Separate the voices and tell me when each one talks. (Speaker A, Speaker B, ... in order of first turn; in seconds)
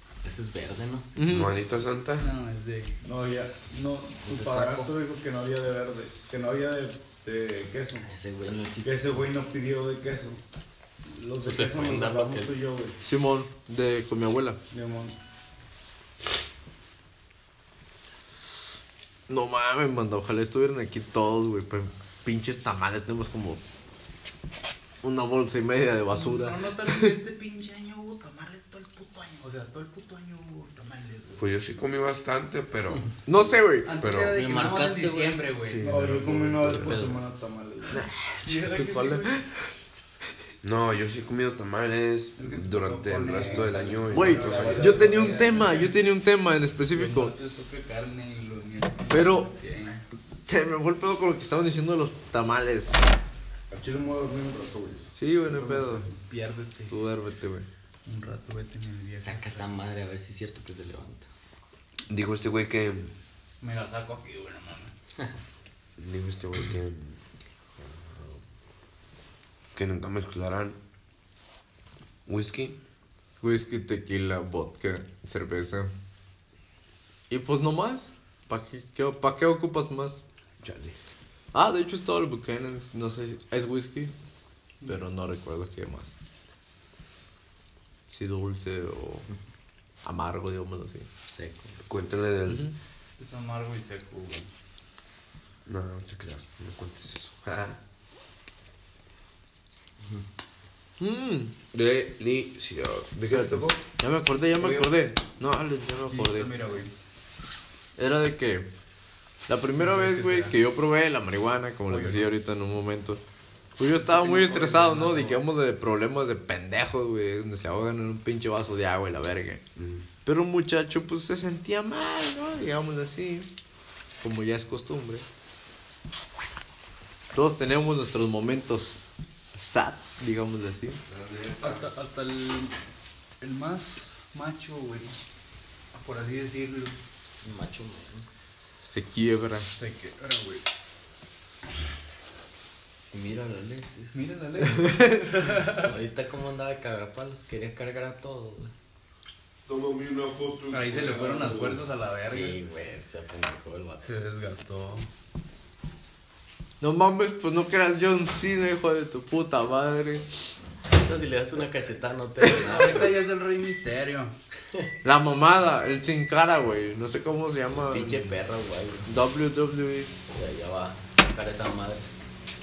Speaker A: 0.2-1.1, 4.2-4.8, 8.1-8.9, 11.4-12.5, 34.3-37.2, 59.2-61.3, 91.3-91.8, 137.4-138.3, 143.1-144.2, 145.5-148.7, 152.3-154.1, 160.9-163.2, 167.8-169.1, 170.3-172.0
Speaker B: 1.1-1.5, 13.0-14.6, 19.3-23.6, 25.0-27.1, 33.3-34.0, 35.6-36.4, 37.9-39.5, 44.1-47.3, 49.1-49.5, 50.4-53.0, 55.1-56.1, 56.9-57.7, 73.4-75.9, 77.3-80.2, 81.5-84.1, 84.8-86.1, 88.1-89.3, 90.0-91.1, 92.5-92.7, 101.0-101.5, 103.3-106.5, 108.0-108.7, 109.5-113.2, 113.8-119.6, 120.2-123.5, 124.2-125.2, 127.3-129.0, 129.5-131.0, 138.9-139.7, 156.8-160.3, 165.0-168.4, 169.1-170.1
Speaker C: 1.2-2.3, 31.4-33.1, 34.0-34.4, 36.1-37.1, 40.6-45.1, 62.1-63.1, 66.0-67.2, 69.7-70.8, 72.2-72.8, 80.6-81.0, 91.9-92.7, 95.7-97.8, 101.7-103.8, 119.8-120.0, 131.1-131.9, 149.7-151.8
Speaker D: 2.2-3.0, 4.4-4.9, 26.1-31.4, 33.8-36.0, 38.4-39.4, 42.4-46.0, 46.9-50.0, 55.5-57.0, 58.0-59.7, 63.6-64.9, 93.2-94.5, 104.6-104.9, 106.1-106.9, 109.7-110.5, 111.9-112.3, 113.9-115.4, 131.6-132.8, 133.4-135.2, 135.9-137.0, 139.6-140.6, 144.1-145.9, 150.7-152.6, 154.0-155.1, 162.4-164.3
Speaker E: 3.0-8.1, 8.8-10.4, 11.1-13.0, 14.7-15.1, 35.8-38.0, 43.5-45.7, 53.7-55.1